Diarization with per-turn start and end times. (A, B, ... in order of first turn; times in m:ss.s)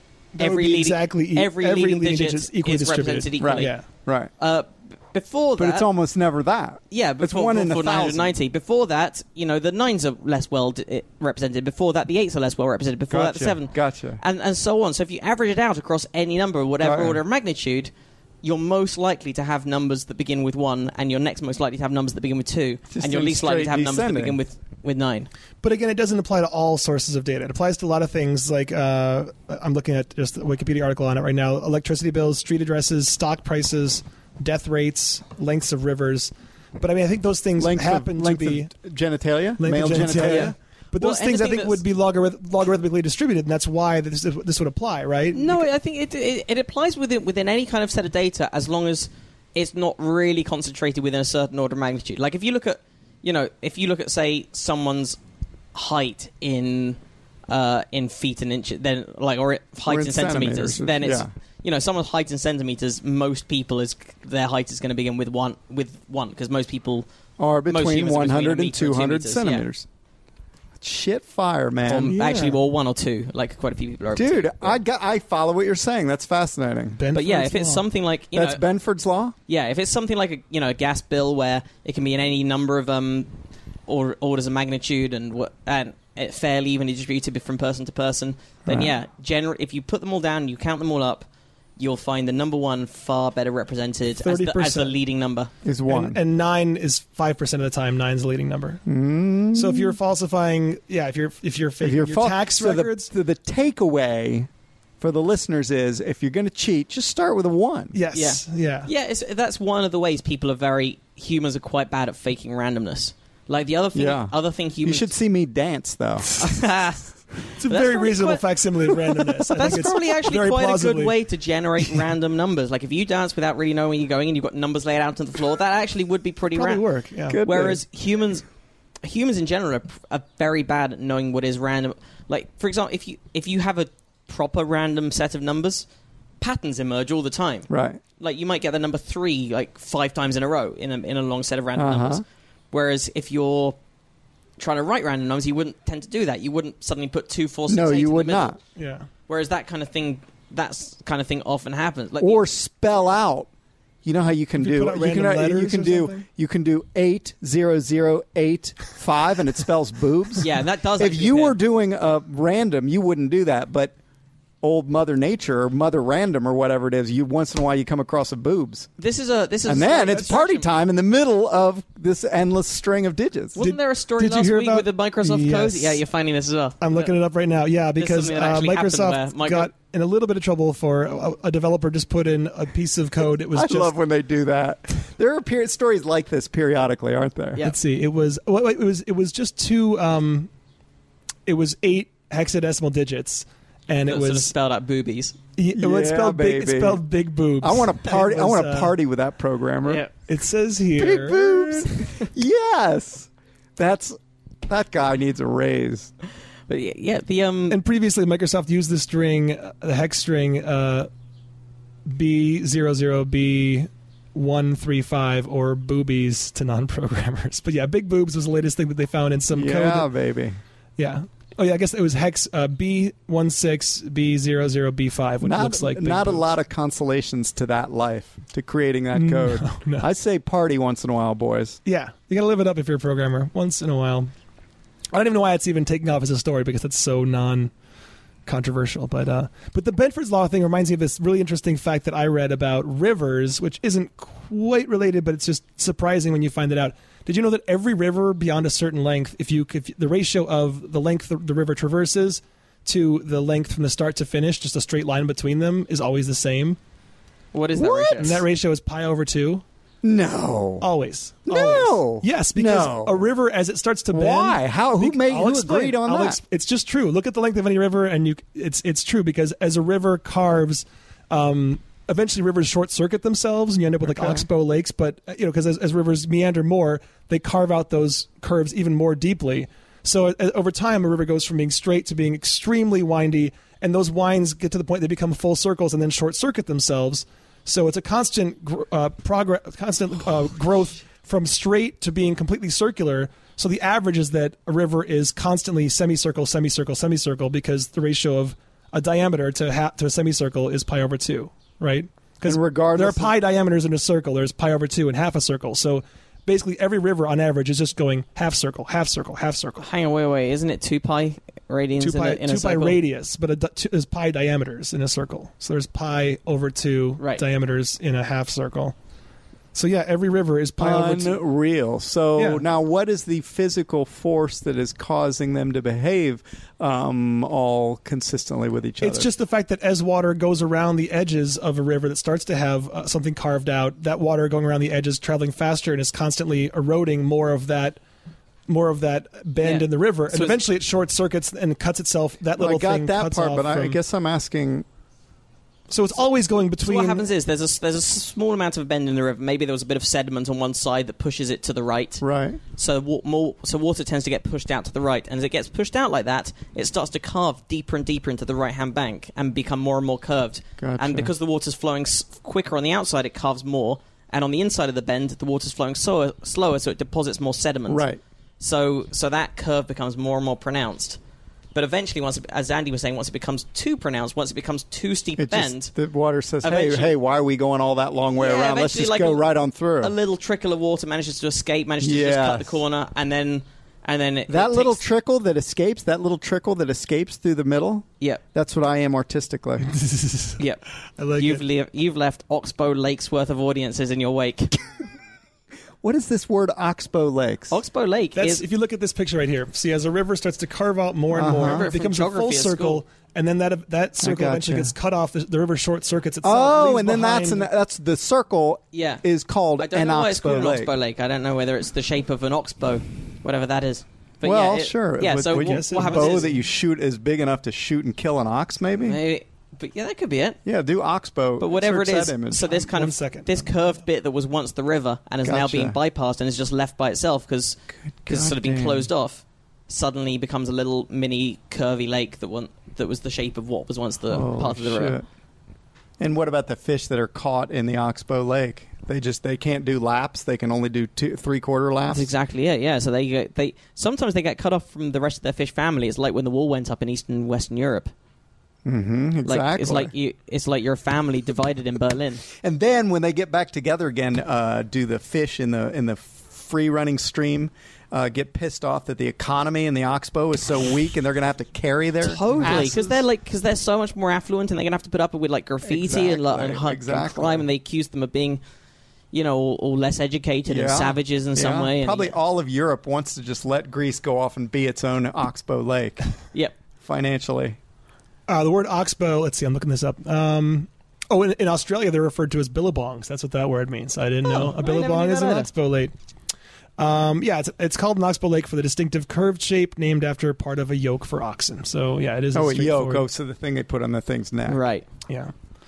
0:00.4-0:03.8 A
0:00.4-0:03.8 B
0:03.4-0:04.3 C
0:04.4-0:05.9 B
0:05.6-0:08.3 C
0:06.9-0:17.9 B
0:13.1-0:14.2 C
0:16.8-0:17.2 C
0:18.4-0:25.3 B
0:22.9-0:24.4 C
0:25.6-0:38.7 A
0:37.6-0:40.5 C
0:39.6-0:45.7 A
0:40.0-0:41.8 B
0:45.3-0:55.2 B
0:55.8-1:07.1 B
0:59.8-1:01.3 C
1:07.4-1:09.9 C
1:07.7-1:09.7 B
1:10.8-1:12.2 C
1:11.9-1:14.8 B
1:12.1-1:12.6 A
1:14.2-1:17.0 C
1:17.0-1:17.8 A
1:17.1-1:18.6 B
1:18.3-1:19.4 C
1:19.5-1:23.3 B
1:23.9-1:31.3 B
1:31.8-1:35.5 B
1:34.2-1:35.0 A
1:35.6-1:36.2 C
1:35.9-1:38.8 A
1:38.9-1:40.0 C
1:39.5-1:43.1 A
1:41.8-1:44.5 C
1:45.0-1:48.0 C
1:47.9-1:48.9 A
1:48.1-1:55.1 B
1:53.9-1:56.4 C
1:56.4-1:58.4 B
1:57.5-2:01.2 A
1:59.5-2:06.8 B
2:06.6-2:07.4 A
2:07.3-2:07.8 C
2:07.4-2:08.4 B
2:09.0-2:15.9 B
2:16.4-2:23.8 B
2:17.7-2:18.0 C
2:21.8-2:22.2 C
2:24.6-2:28.6 B
2:27.7-2:28.6 C
2:28.8-2:29.1 A
2:29.3-2:32.4 B
2:32.2-2:33.5 C
2:34.0-2:43.9 C
2:34.6-2:36.2 A
2:40.4-2:41.6 B
2:44.6-2:48.9 C
2:49.0-2:50.7 B
2:49.7-2:53.6 C
2:53.6-2:57.1 B
2:53.6-2:56.0 A
2:56.8-3:04.0 A
2:58.0-2:59.7 B
3:03.5-3:07.6 C
3:07.6-3:10.5 A
3:11.5-3:14.5 A
3:14.1-3:15.4 B
3:15.6-3:19.0 A
3:15.8-3:17.0 C
3:17.6-3:20.0 C
3:19.8-3:20.1 B
3:20.3-3:21.8 A
3:21.0-3:26.1 C
3:26.7-3:27.8 B
3:27.7-3:31.1 A
3:32.1-3:40.1 A
3:39.5-3:40.6 C
3:41.0-3:46.5 A
3:45.4-3:51.8 C
3:49.1-3:50.1 A
3:51.9-3:54.3 A
3:55.1-3:57.7 A
3:58.5-4:16.8 A
4:17.5-4:18.4 B
4:17.8-4:18.4 C
4:18.2-4:19.6 A
4:20.0-4:20.9 C
4:20.8-5:09.9 A
4:21.5-4:23.2 C
4:24.1-4:26.4 C
4:34.0-4:34.4 C
5:02.4-5:03.4 C
5:09.8-5:13.0 B
5:12.0-5:19.0 A
5:19.7-5:21.4 A
5:20.8-5:29.3 C
5:22.4-5:22.6 A
5:29.0-5:38.0 A
5:38.7-5:44.0 A
5:39.6-5:40.6 B
5:42.6-5:44.9 C
5:45.9-5:47.3 A
5:46.8-5:52.2 B
5:52.2-5:52.6 C
5:52.8-6:08.1 B
6:00.8-6:01.3 C
6:07.9-6:08.2 C
6:08.6-6:11.2 B
6:11.7-6:15.9 B
6:15.4-6:20.1 C
6:16.6-6:17.1 B
6:18.4-6:19.5 B
6:20.0-6:25.0 B
6:22.0-6:22.8 C
6:24.5-6:29.9 C
6:29.9-6:30.6 A
6:30.6-6:30.8 B
6:31.2-6:31.6 A
6:31.4-6:34.7 B
6:36.0-6:37.8 C
6:37.7-6:38.6 B
6:38.4-6:47.7 A
6:41.3-6:41.9 C
6:41.6-6:43.0 B
6:44.2-6:44.9 C
6:46.4-6:50.9 C
6:48.9-6:49.2 B
6:49.8-6:56.5 B
6:54.4-6:59.2 C
6:55.5-6:56.5 A
6:59.0-7:00.6 B
7:00.6-7:02.6 C
7:01.6-7:15.2 B
7:02.6-7:03.7 A
7:05.4-7:06.0 C
7:08.2-7:09.1 C
7:14.3-7:15.2 C
7:16.2-7:22.3 C
7:22.1-7:28.1 B
7:28.8-7:30.1 C
7:29.4-7:32.4 B
7:32.6-7:43.2 C
7:42.2-7:48.6 B
7:45.8-7:47.7 C
7:49.3-7:52.4 B
7:50.7-7:56.2 C
7:57.0-7:57.8 C
7:58.5-8:06.1 A
8:04.4-8:05.7 B
8:07.0-8:13.2 A
8:12.5-8:14.8 C
8:14.7-8:15.1 B